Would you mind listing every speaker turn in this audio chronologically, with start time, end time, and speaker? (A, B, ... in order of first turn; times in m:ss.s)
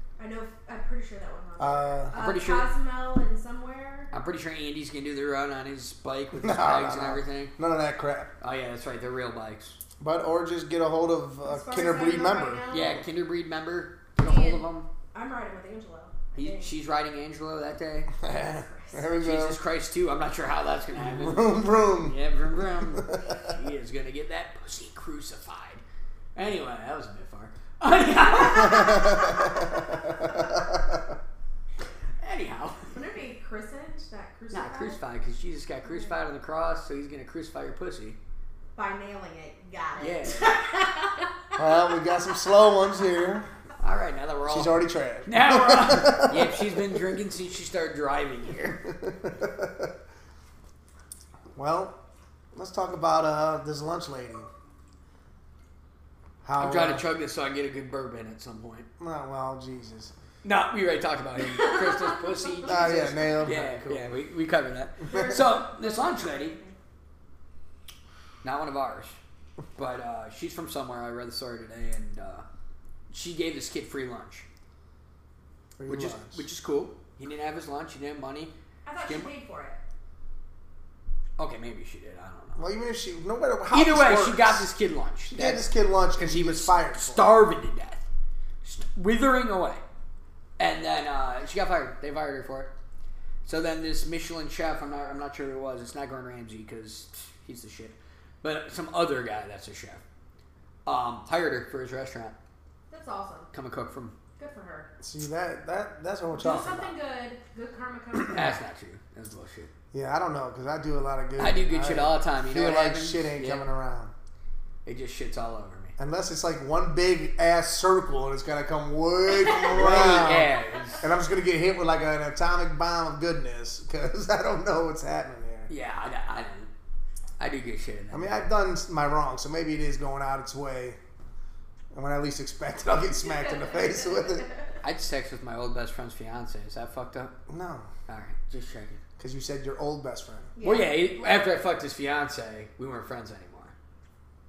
0:00.2-0:04.1 A
0:01.6-0:02.1 B
0:02.1-0:02.7 C
0:04.1-0:07.6 C
0:06.4-0:08.3 B
0:08.4-0:09.8 C
0:10.0-0:12.6 B
0:11.4-0:13.0 A
0:12.7-0:14.9 C
0:14.2-0:16.7 A
0:16.4-0:18.1 C
0:18.2-0:19.6 B
0:18.3-0:19.1 A
0:19.2-0:25.8 C
0:21.0-0:22.2 B
0:22.8-0:23.4 B
0:26.4-0:29.3 C
0:28.6-0:31.1 B
0:32.2-0:32.9 C
0:32.9-0:35.0 A
0:34.5-0:38.2 C
0:35.8-0:36.2 A
0:38.8-0:41.6 A
0:40.0-0:40.7 C
0:41.6-0:43.5 B
0:43.8-0:48.8 C
0:44.5-0:47.0 B
0:48.9-0:49.9 B
0:51.6-0:52.0 B
0:52.5-0:54.5 B
0:56.4-0:57.1 B
0:56.6-0:58.9 C
0:59.0-1:00.1 B
1:00.4-1:06.6 C
1:01.6-1:03.6 A
1:02.7-1:04.1 B
1:05.1-1:06.8 A
1:08.4-1:09.2 C
1:09.8-1:12.5 C
1:13.1-1:14.5 C
1:15.8-1:16.4 B
1:15.9-1:18.5 C
1:18.8-1:19.8 A
1:19.0-1:19.3 C
1:21.4-1:22.6 C
1:22.6-1:24.7 B
1:23.7-1:25.7 C
1:25.3-1:27.3 B
1:26.2-1:28.0 C
1:28.6-1:29.8 C
1:30.6-1:32.7 C
1:33.4-1:40.0 C
1:40.9-1:42.4 C
1:42.9-1:43.5 A
1:43.5-1:44.2 C
1:44.4-1:44.9 A
1:45.0-1:46.9 B
1:46.3-1:48.6 A
1:48.3-1:49.7 C
1:49.9-1:54.1 B
1:51.4-1:53.7 C
1:54.8-1:56.0 C
1:56.0-2:05.7 B
1:59.3-2:00.9 A
1:59.6-2:01.1 C
2:05.7-2:06.7 C
2:07.4-2:08.4 C
2:08.1-2:11.0 B
2:11.9-2:14.5 B
2:13.1-2:14.8 A
2:14.8-2:17.4 C
2:17.5-2:17.9 B
2:18.1-2:19.0 C
2:19.2-2:20.5 B
2:20.6-2:21.1 A
2:20.6-2:23.7 C